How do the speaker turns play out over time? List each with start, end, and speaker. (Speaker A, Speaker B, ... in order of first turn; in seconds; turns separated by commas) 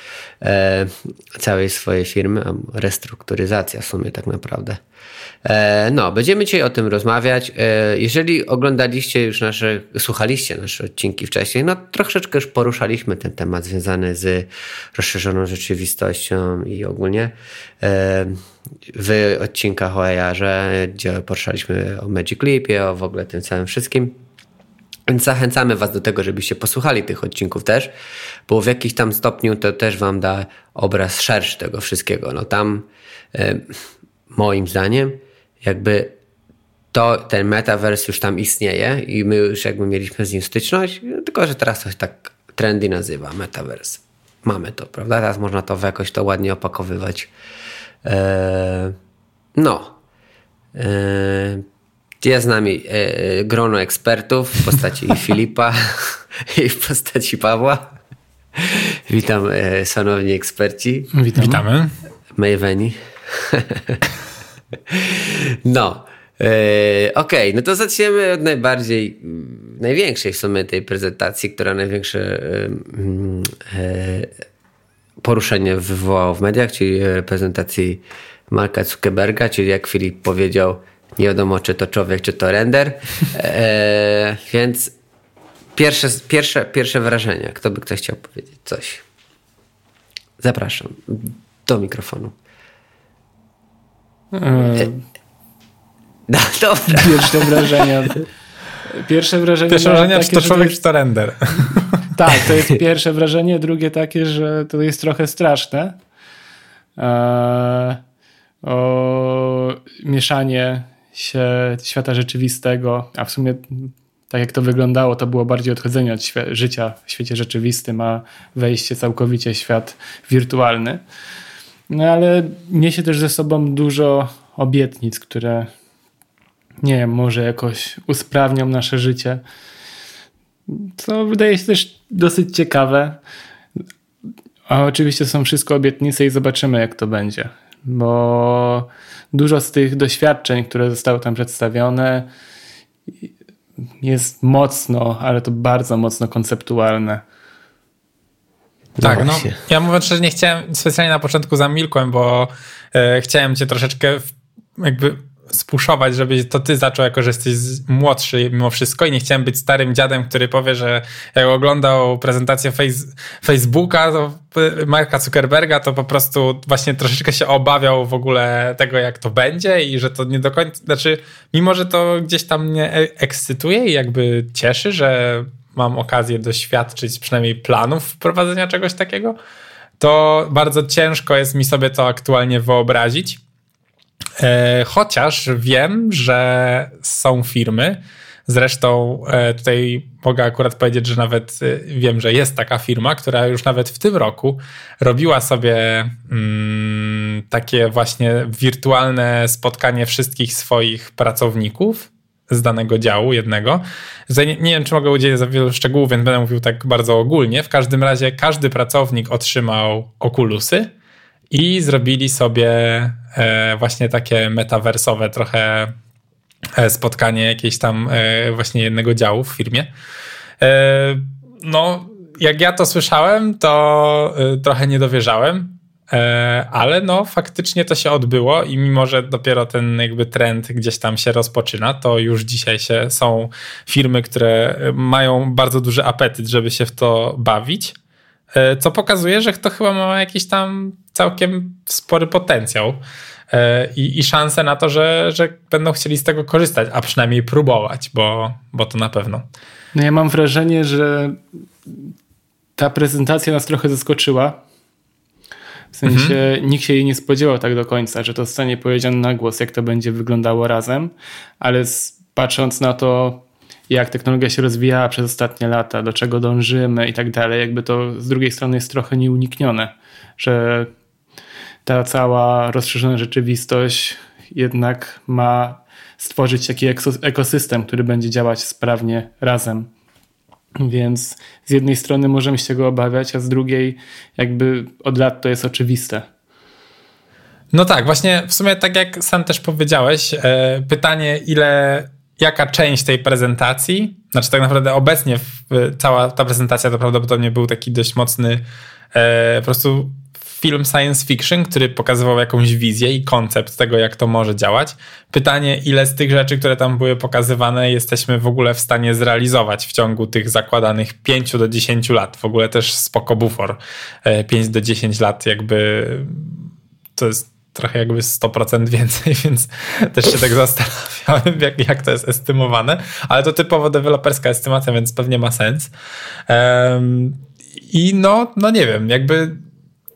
Speaker A: 0.4-4.8, Speaker A: 5.5-18.4, Speaker A: 18.9-24.2, Speaker A: 25.1-27.9, Speaker A: 28.5-33.8, Speaker A: 34.3-36.1, Speaker A: 36.9-47.3, Speaker A: 48.0-49.0, Speaker A: 49.6-50.0, Speaker A: 50.8-51.6, Speaker A: 52.2-58.0, Speaker A: 58.6-61.1, Speaker B: 61.1-61.6, Speaker C: 61.4-61.9, Speaker A: 62.4-64.0, Speaker A: 64.9-74.3, Speaker A: 75.2-84.9, Speaker A: 85.8-89.0, Speaker A: 90.4-92.3, Speaker B: 94.3-95.0, Speaker A: 96.3-97.7, Speaker B: 96.9-98.2, Speaker B: 98.9-100.8, Speaker C: 99.7-102.0, Speaker B: 102.1-106.0, Speaker B: 107.0-108.0, Speaker B: 108.6-121.0, Speaker B: 121.9-125.7, Speaker B: 126.8-129.4, Speaker B: 130.7-133.2, Speaker B: 134.7-142.3, Speaker B: 144.0-147.2, Speaker A: 149.0-149.6, Speaker C: 149.0-179.4, Speaker C: 180.0-183.4, Speaker C: 184.4-210.9, Speaker C: 211.5-215.9, Speaker C: 216.8-219.9, Speaker C: 220.6-237.9, Speaker C: 238.5-249.4, Speaker B: 249.9-252.1, Speaker B: 252.8-254.6, Speaker B: 255.9-270.9, Speaker C: 256.1-256.4, Speaker B: 271.9-279.9, Speaker B: 280.8-286.3, Speaker C: 287.7-325.9, Speaker C: 326.5-327.4, Speaker C: 327.9-329.6